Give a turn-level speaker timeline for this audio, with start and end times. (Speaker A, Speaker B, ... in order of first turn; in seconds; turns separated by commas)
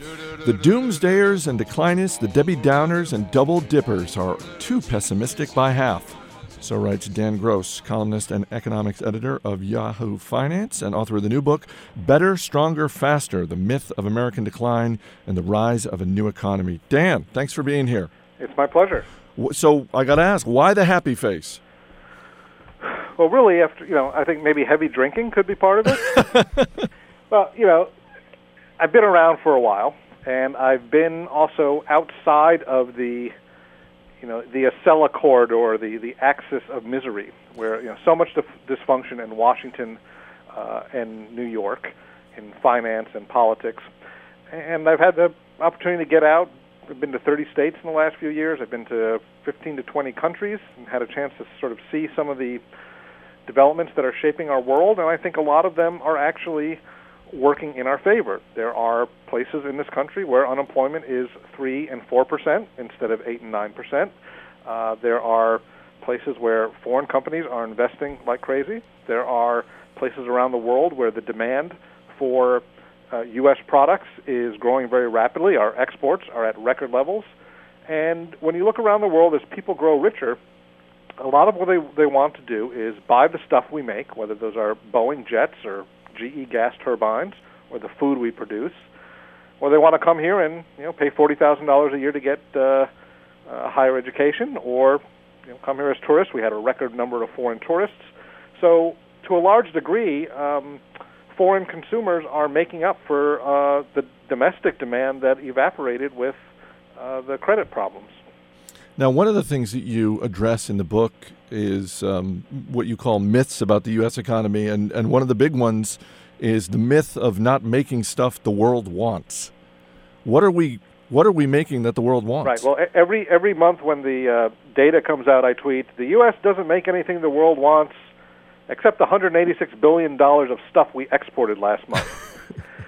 Speaker A: 0.4-18.1, Speaker B: 18.4-19.1, Speaker A: 19.4-21.6, Speaker B: 23.2-26.3, Speaker B: 27.3-27.9, Speaker B: 28.8-33.3, Speaker B: 34.2-40.0, Speaker B: 40.5-43.9, Speaker B: 44.5-52.6, Speaker B: 53.5-56.8, Speaker B: 57.3-64.1, Speaker B: 64.7-77.3, Speaker B: 77.9-80.4, Speaker B: 81.2-88.8, Speaker B: 89.6-92.9, Speaker B: 93.5-95.0, Speaker B: 95.5-100.8, Speaker B: 101.3-106.4, Speaker B: 107.0-108.2, Speaker A: 109.0-119.5, Speaker A: 120.2-122.7, Speaker B: 122.4-128.0, Speaker B: 128.7-132.2